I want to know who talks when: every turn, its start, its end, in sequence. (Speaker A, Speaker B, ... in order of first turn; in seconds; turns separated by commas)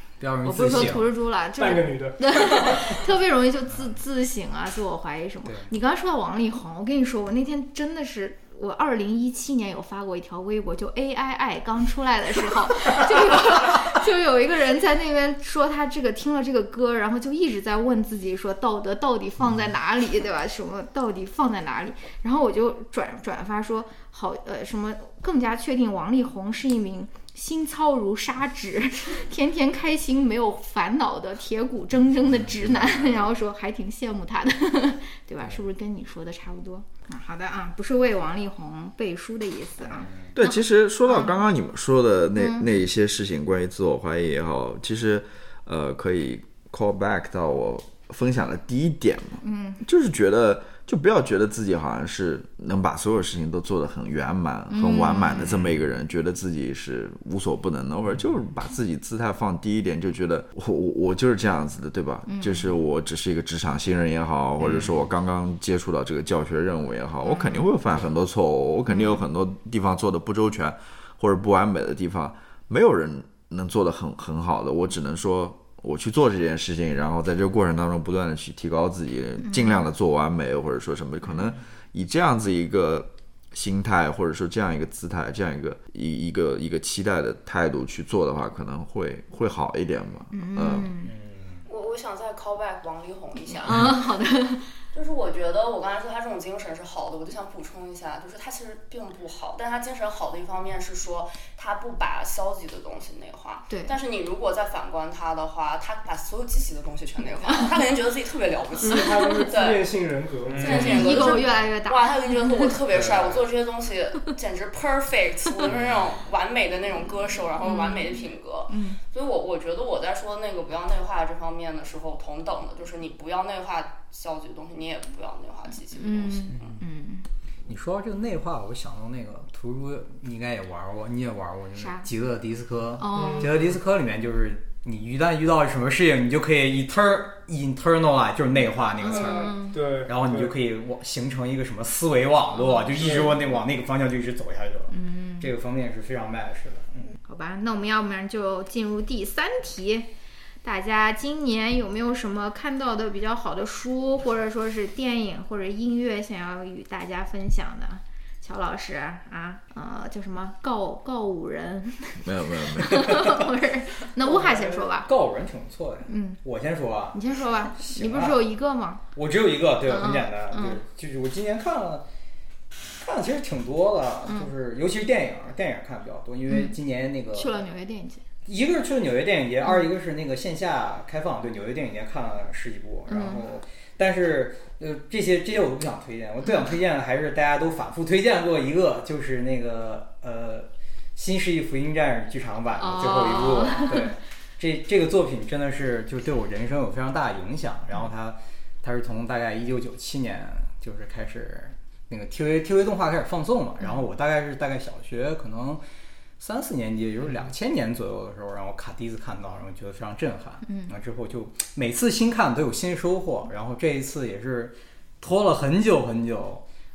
Speaker A: 0.2-1.1, Speaker B: 0.4-41.4, Speaker C: 1.6-3.0, Speaker A: 5.4-5.7, Speaker A: 39.9-40.3, Speaker D: 40.3-90.9, Speaker B: 42.4-42.7, Speaker B: 49.4-49.8, Speaker B: 54.7-55.5, Speaker B: 62.2-62.7, Speaker A: 64.6-64.9, Speaker B: 67.2-67.7, Speaker B: 68.9-69.2, Speaker B: 79.4-79.8, Speaker B: 90.3-91.1, Speaker A: 91.0-91.6, Speaker E: 91.7-94.0, Speaker B: 93.6-94.7, Speaker E: 94.9-109.9, Speaker B: 103.7-104.0, Speaker B: 108.8-109.4, Speaker C: 108.8-111.2, Speaker A: 110.4-111.4, Speaker E: 110.6-126.8, Speaker B: 110.6-112.8, Speaker A: 112.9-113.4, Speaker B: 117.6-119.0, Speaker B: 126.0-127.3, Speaker A: 126.6-126.8, Speaker A: 127.7-147.2, Speaker B: 131.7-132.1, Speaker B: 133.0-133.5, Speaker C: 133.1-133.7, Speaker B: 139.0-139.8, Speaker C: 139.0-140.5, Speaker C: 142.9-143.5, Speaker B: 144.9-145.5, Speaker B: 147.2-150.1, Speaker B: 150.6-165.1, Speaker D: 162.2-163.3, Speaker A: 164.2-167.2, Speaker B: 166.1-166.4, Speaker B: 167.1-169.0, Speaker A: 167.7-168.4, Speaker A: 169.1-172.0, Speaker B: 169.9-170.8, Speaker A: 173.0-177.6, Speaker B: 174.2-174.5, Speaker B: 176.5-176.8, Speaker B: 177.3-178.2, Speaker A: 178.4-205.8, Speaker B: 179.6-179.9, Speaker B: 183.1-183.4, Speaker B: 192.8-194.1, Speaker A: 206.4-216.6, Speaker B: 210.7-210.9